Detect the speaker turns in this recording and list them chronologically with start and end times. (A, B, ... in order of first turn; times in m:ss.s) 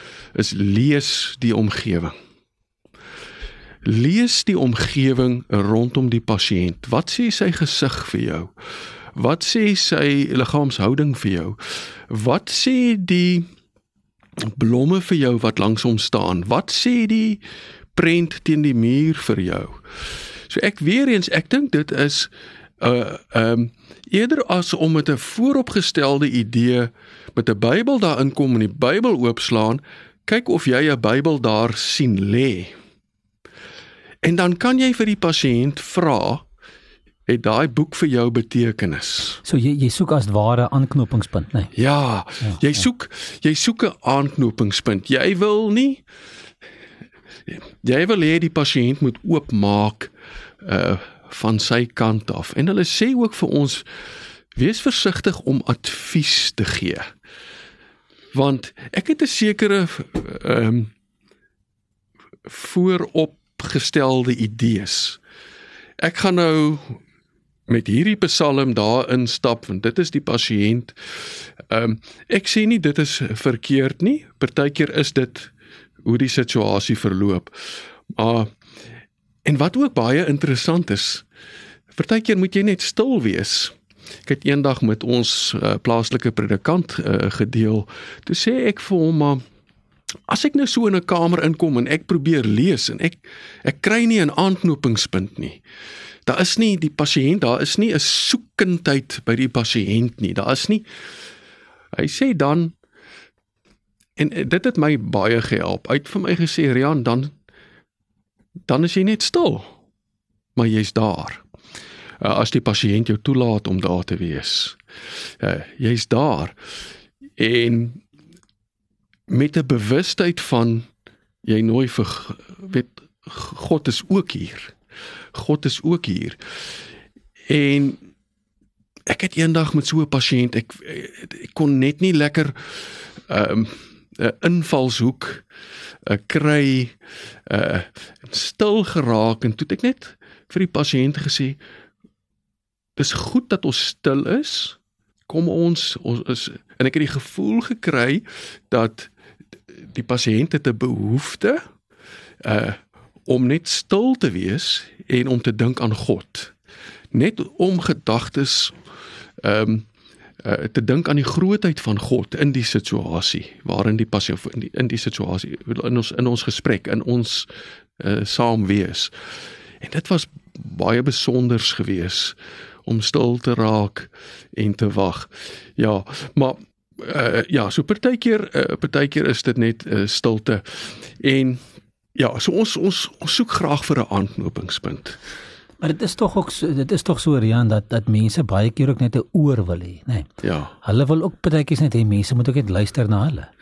0:00.3-0:02.1 A
0:03.8-0:08.5 A
0:09.1-0:11.6 A
0:12.1-0:13.5 A
0:14.4-0:17.4 A
0:17.9-0:19.8 A
0:20.5-0:32.7 A
0:34.2-0:36.4 A
0:37.3-0:39.4 A
0:39.4-0:41.7 B
0:41.8-0:46.0 A
0:42.4-0:42.8 B
0:47.5-0:50.1 A
0:50.6-0:53.8 A
0:54.6-0:57.1 A
0:58.3-1:00.9 A
1:02.4-1:05.2 A
1:06.0-1:07.0 A
1:07.7-1:11.0 A
1:11.7-1:15.5 A
1:16.0-1:17.5 A
1:18.1-1:18.5 A
1:19.4-1:21.2 A
1:21.9-1:23.7 A
1:24.2-1:29.4 A
1:30.3-1:35.6 A
1:36.2-1:40.8 A
1:41.9-1:42.7 A
1:44.2-1:47.3 A
1:48.7-1:49.7 A
1:50.5-1:51.4 A
1:52.2-1:54.8 A
1:55.4-1:56.5 A
1:57.4-1:58.0 A
1:59.3-2:00.9 A
2:01.4-2:04.8 A
2:05.3-2:06.4 A
2:07.5-2:08.0 A
2:09.1-2:15.4 A
2:16.0-2:16.9 A
2:17.5-2:21.6 A
2:23.0-2:24.8 A
2:25.3-2:29.1 A
2:29.9-2:31.6 A
2:32.4-2:36.5 A
2:37.1-2:38.8 A
2:39.4-2:39.8 A
2:40.4-2:49.1 A
2:49.8-3:01.6 A
3:02.1-3:05.2 A
3:05.8-3:10.3 B
3:10.4-3:10.7 A
3:10.8-3:13.5 B